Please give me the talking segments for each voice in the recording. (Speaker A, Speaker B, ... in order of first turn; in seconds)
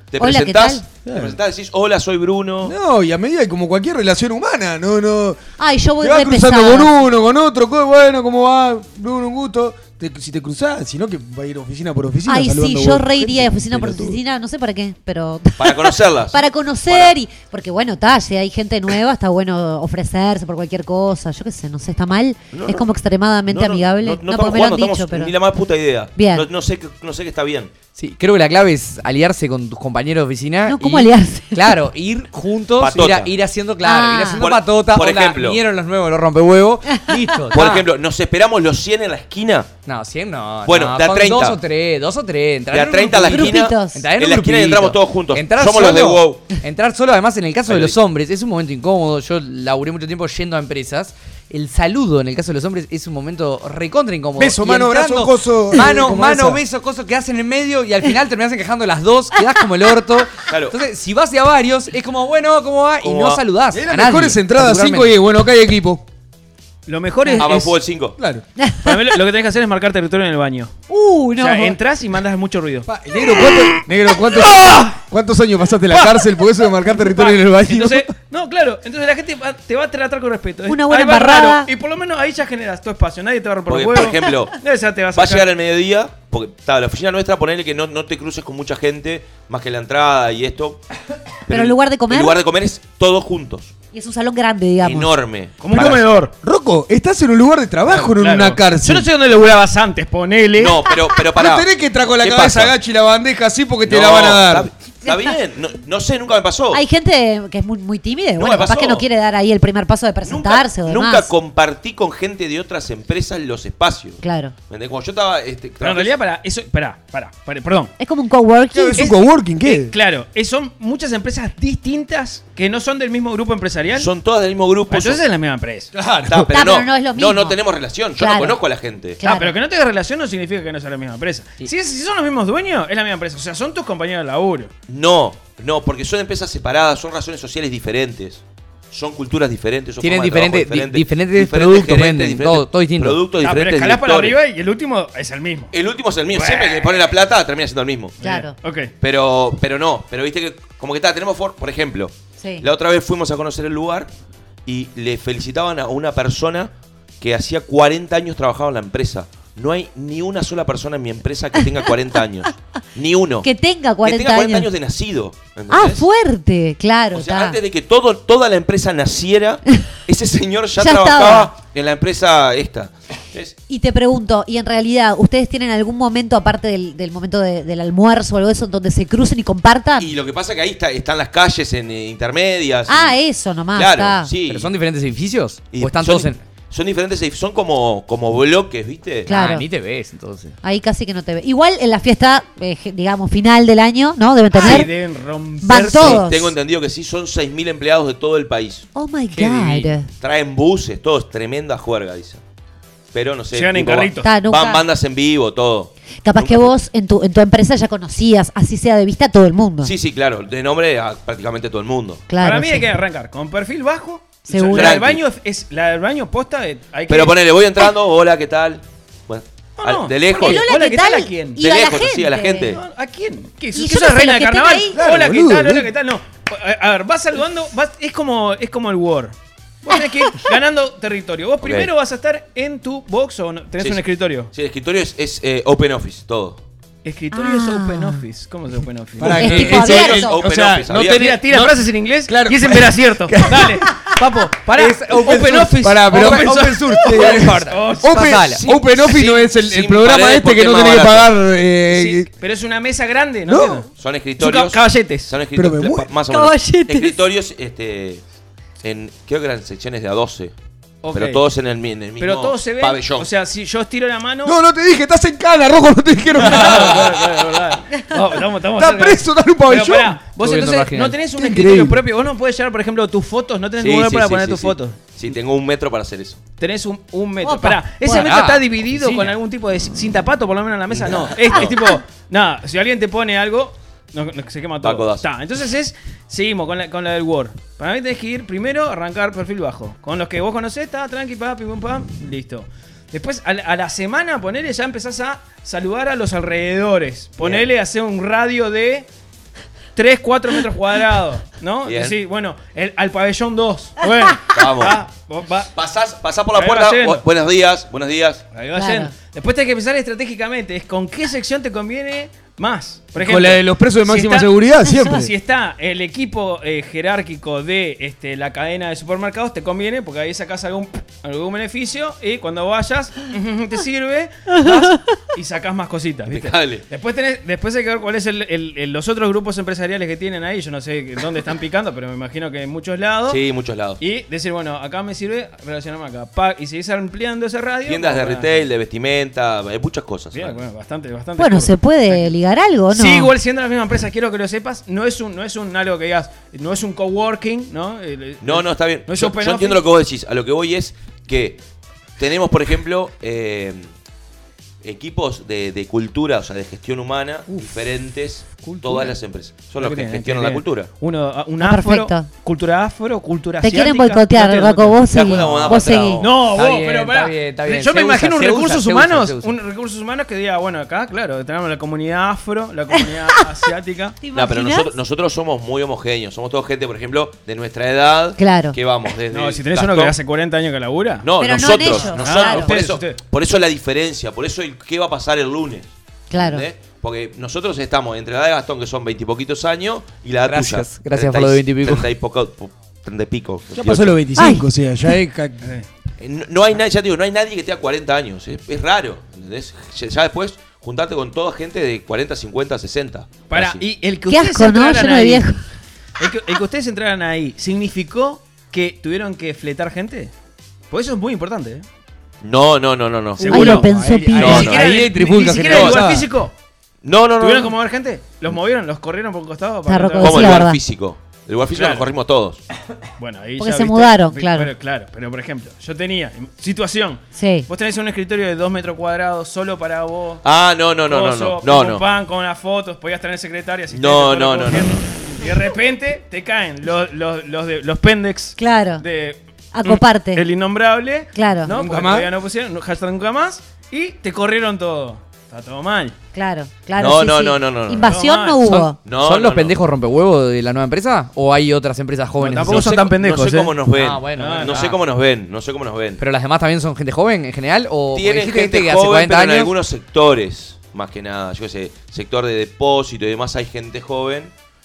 Speaker A: 0.1-2.7, 15.6-17.1, 22.5-22.9, 23.5-27.7, 32.8-33.3, 34.3-35.6, 37.5-39.7, 40.6-41.6, 42.7-46.5, 47.7-48.0, 60.5-60.8, 63.0-63.4, 67.4-68.2, 83.7-84.6, 85.1-90.8, 91.5-93.7, 94.8-96.1, 100.5-101.7, 102.2-102.7, 103.8-106.8, 108.4-109.0, 110.2-116.2, 123.9-125.2, 126.2-129.2, 134.9-144.4, 145.7-148.2, 149.0-154.1, 154.7-163.5, 164.0-166.1, 167.1-173.5, 180.0-183.2, 183.7-184.7, 185.7-189.3, 195.9-198.9, 200.2-202.4, 203.1-206.7, 209.8-212.3, 214.7-215.2, 217.1-220.6, 221.6-222.8, 231.6-231.9, 233.8-236.6, 239.6-241.4, 248.7-251.3, 254.0-258.2, 258.8-260.5, 261.1-263.3, 266.5-267.0, 273.8-276.4, 280.9-281.8, 284.8-285.3, 297.4-297.7, 301.8-302.1, 304.5-305.0, 305.7-308.4, 326.3-326.8, 333.3-334.0, 337.8-340.6, 348.4-351.6, 352.2-353.9, 354.8-360.9, 365.1-366.4, 374.3-380.2, 381.2-394.2, 396.2-403.8, 412.4-413.8, 414.4-415.1, 415.7-416.1, 417.0-417.8, 420.2-422.6, 430.4-432.0, 433.9-435.0, 446.9-448.1, 449.0-449.8, 452.6-456.2, 458.1-464.5
Speaker B: 0.2-0.8, 5.6-6.9, 12.2-25.3, 26.1-26.4, 30.7-31.8, 33.8-34.4, 36.9-37.3, 43.3-44.0, 68.6-69.1, 70.9-71.8, 80.7-81.7, 91.5-92.4, 93.9-95.1, 106.7-111.3, 114.2-114.5, 118.0-119.1, 126.5-127.6, 128.2-128.6, 129.2-129.5, 148.2-148.5, 152.4-152.6, 163.4-164.7, 165.7-167.6, 170.8-171.5, 173.7-180.1, 182.9-184.3, 189.3-189.6, 190.6-194.9, 195.6-196.5, 198.9-200.1, 204.2-204.8, 206.2-209.9, 212.3-212.9, 214.5-215.0, 220.3-222.8, 223.7-225.0, 237.3-238.2, 239.3-240.4, 256.3-257.1, 277.4-278.3, 308.7-309.1, 341.4-343.3, 361.6-362.3, 363.6-366.2, 374.2-374.9, 378.4-378.8, 381.4-382.8, 386.3-386.6, 394.4-394.6, 404.3-405.6, 413.5-414.8, 419.9-420.8, 423.6-424.7, 427.3-427.7, 438.6-439.0, 439.7-440.4, 441.3-441.7, 446.3-449.0
Speaker C: 1.1-1.4, 2.6-5.4, 6.0-14.2, 54.4-56.6, 63.7-66.0, 68.2-68.4, 72.9-78.1, 96.4-99.1, 101.3-104.7, 118.7-119.9, 125.9-126.5, 224.9-225.9, 239.2-244.1, 244.7-252.3, 253.5-253.8, 255.5-256.1, 264.4-267.3, 268.7-270.2, 271.4-272.0, 313.1-315.3, 393.8-395.7, 413.6-416.3, 441.7-442.3
Speaker D: 27.9-37.9, 39.9-65.1, 140.0-143.2, 184.5-186.4, 189.2-190.6, 199.3-199.9, 245.2-248.8, 270.4-271.2, 278.1-279.3, 366.5-369.5, 390.4-392.1, 449.1-452.9, 453.9-455.0, 456.2-459.7
Speaker E: 66.9-67.8, 68.8-70.7, 71.4-72.9, 75.9-76.3, 76.9-85.5, 95.6-96.3, 98.0-100.8, 115.8-117.9, 119.0-124.1, 124.9-125.9, 129.2-134.7, 143.4-145.7, 146.3-147.0, 148.2-148.9, 194.5-196.2, 203.5-204.3, 212.4-217.4, 219.8-221.6, 222.7-234.5, 237.0-239.7, 240.9-248.3, 251.9-255.3, 261.0-261.4, 262.2-264.5, 266.4-275.0, 276.6-299.1, 299.9-305.7, 306.5-307.2, 308.5-333.4, 334.0-338.7, 340.3-342.3, 342.9-349.8, 358.6-359.1, 359.7-365.7, 366.2-374.2, 379.3-381.2, 381.8-383.2, 403.5-405.5, 406.2-410.3, 410.9-411.8, 413.4-416.5, 417.4-420.6, 421.7-422.1, 423.2-430.4, 431.0-446.1, 448.0-448.9, 452.4-453.8, 454.3-454.9